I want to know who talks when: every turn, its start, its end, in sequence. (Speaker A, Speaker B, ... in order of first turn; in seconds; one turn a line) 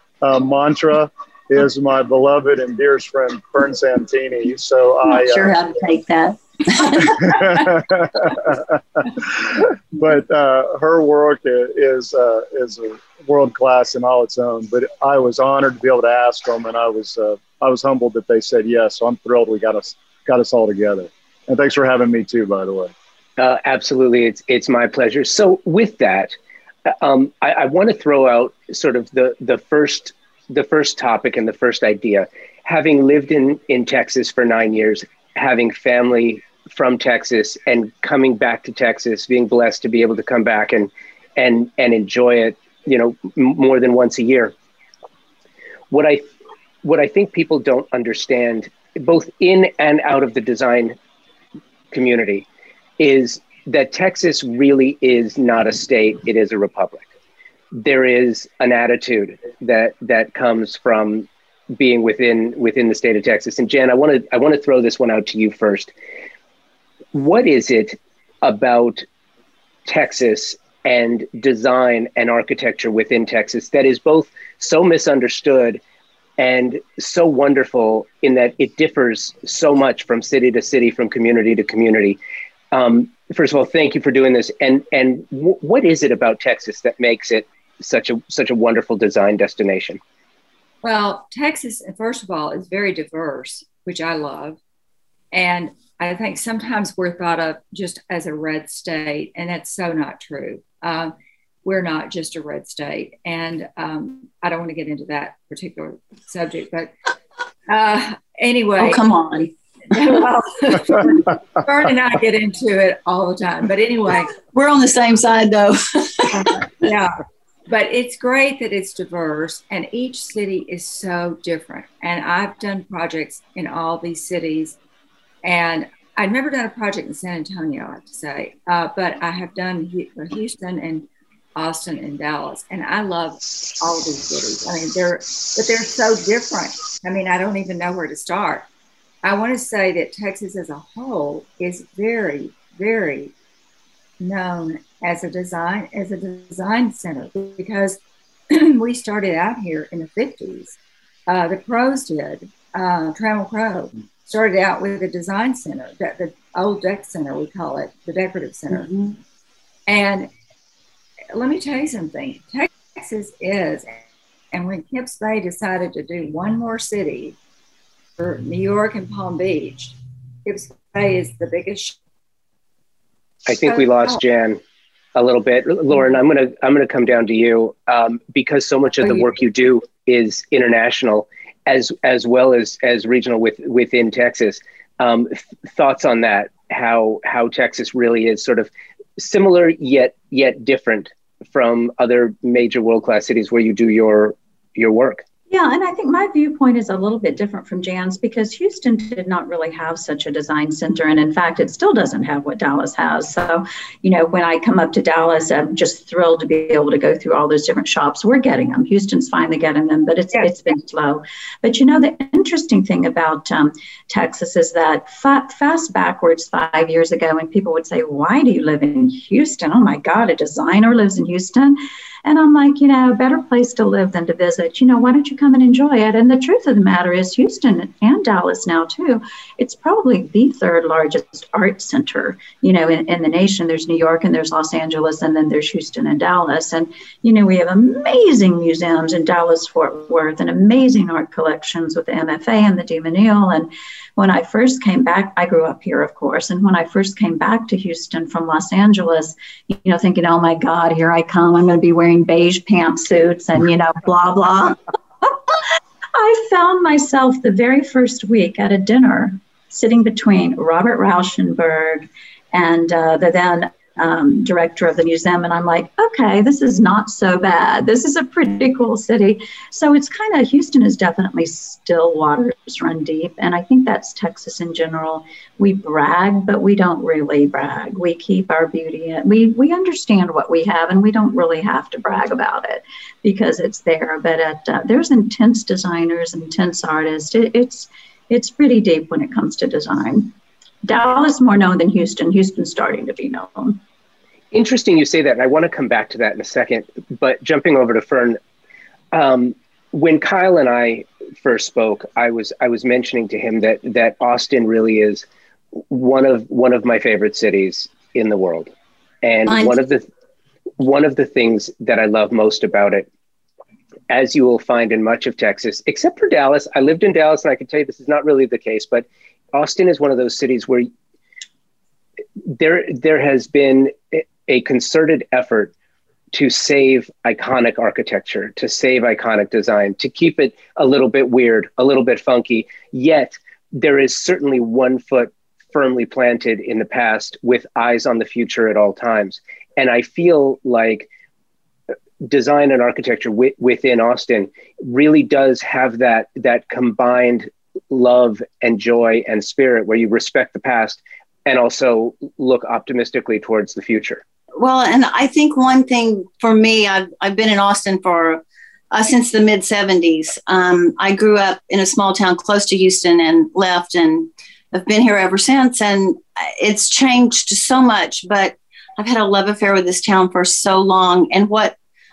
Speaker A: 0.2-5.6
Speaker B: 5.1-7.4
Speaker A: 7.0-22.9
Speaker C: 23.4-26.3
Speaker C: 26.9-44.5
Speaker C: 45.9-46.3
Speaker C: 46.8-51.0
Speaker C: 51.9-52.5
Speaker C: 53.0-57.1
Speaker C: 57.7-65.9
Speaker C: 67.1-69.0
Speaker C: 69.9-75.8
Speaker C: 76.4-82.2
Speaker C: 82.7-90.0
Speaker D: 90.8-94.6
Speaker D: 95.3-101.1
Speaker D: 101.6-106.9
Speaker D: 107.7-109.1
Speaker B: 108.8-109.5
Speaker D: 109.9-114.3
Speaker B: 114.5-116.6
Speaker D: 116.3-124.8
Speaker D: 125.4-138.7
Speaker D: 139.2-143.3
Speaker D: 144.2-158.9
Speaker B: 158.8-159.1
Speaker D: 159.9-160.3
Speaker D: 161.3-163.9
Speaker D: 164.5-167.4
Speaker D: 168.2-172.0
Speaker C: 173.5-174.6
Speaker C: 175.2-195.2
Speaker E: 195.5-255.6
Speaker E: 256.1-290.3
Speaker E: 290.9-293.8
Speaker C: 294.5-298.4
Speaker C: 299.1-305.2
Speaker C: 305.9-308.7
Speaker C: 309.2-310.1
Speaker B: 309.5-309.7
Speaker C: 310.8-313.1
Speaker C: 314.1-320.9
Speaker C: 322.5-325.7
Speaker C: 326.3-341.1
Speaker C: 342.2-354.2
Speaker B: 354.6-371.8